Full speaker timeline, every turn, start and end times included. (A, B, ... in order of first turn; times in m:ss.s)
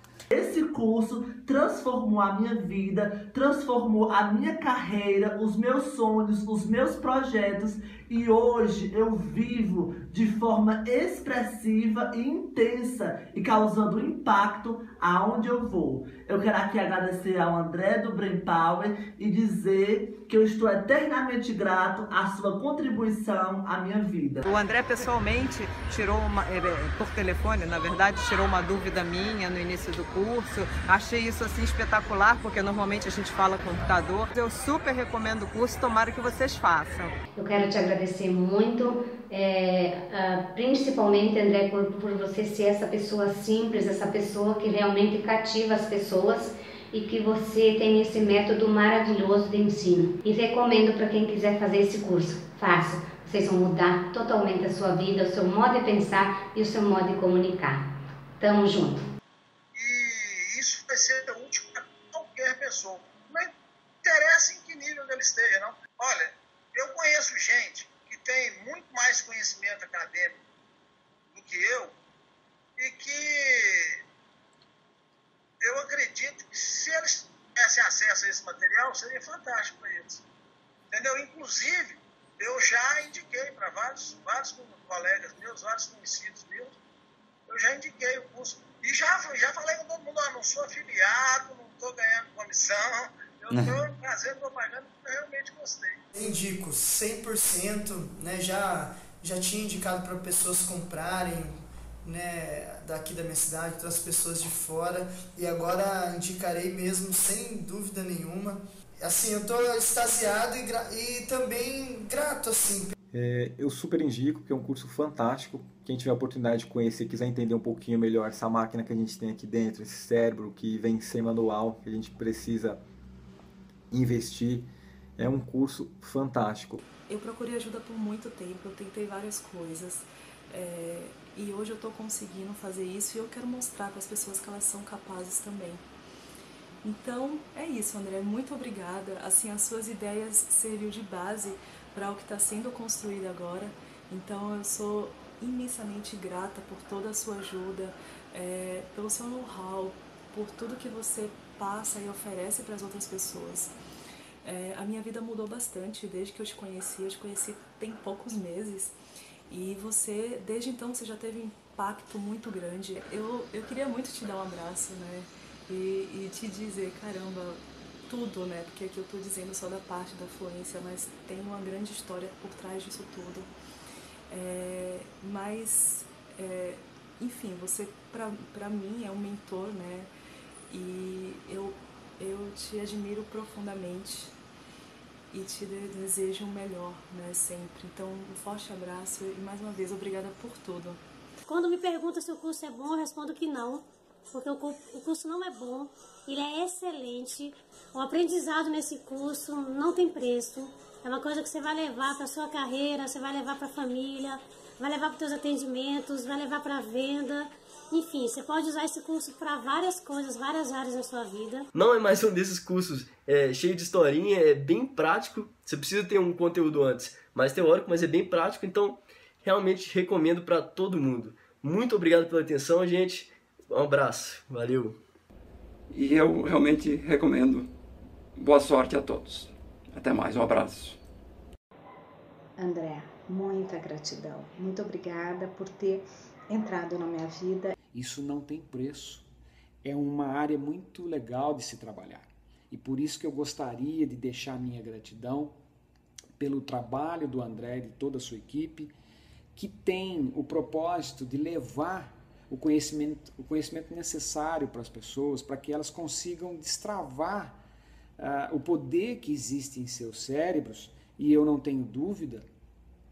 0:00.3-0:24.4 A
0:24.4-0:37.1 B
0:37.4-0:59.1 C
0:59.8-1:03.5 D
1:04.0-1:10.4 D
1:11.3-1:12.0 D
1:12.8-1:14.0 D
1:15.6-1:20.2 D
1:20.9-1:26.7 D
1:27.5-1:36.0 D
1:36.1-1:52.9 E
1:53.1-2:02.8 F
2:03.9-2:06.8 F
2:07.1-2:15.8 G
2:16.8-2:33.7 G
2:34.4-2:39.0 G
2:39.5-2:53.5 G
2:54.3-3:00.1 G
3:00.7-3:04.4 G
3:05.3-3:11.0 G
3:11.5-3:31.7 H
3:31.7-3:45.0 I
3:45.9-3:47.7 J
3:48.4-3:51.0 J
3:52.6-3:57.7 K
3:57.9-3:59.3 L
3:59.8-4:05.6 L
4:06.4-4:08.9 L
4:09.5-4:17.6 L
4:18.2-4:22.5 L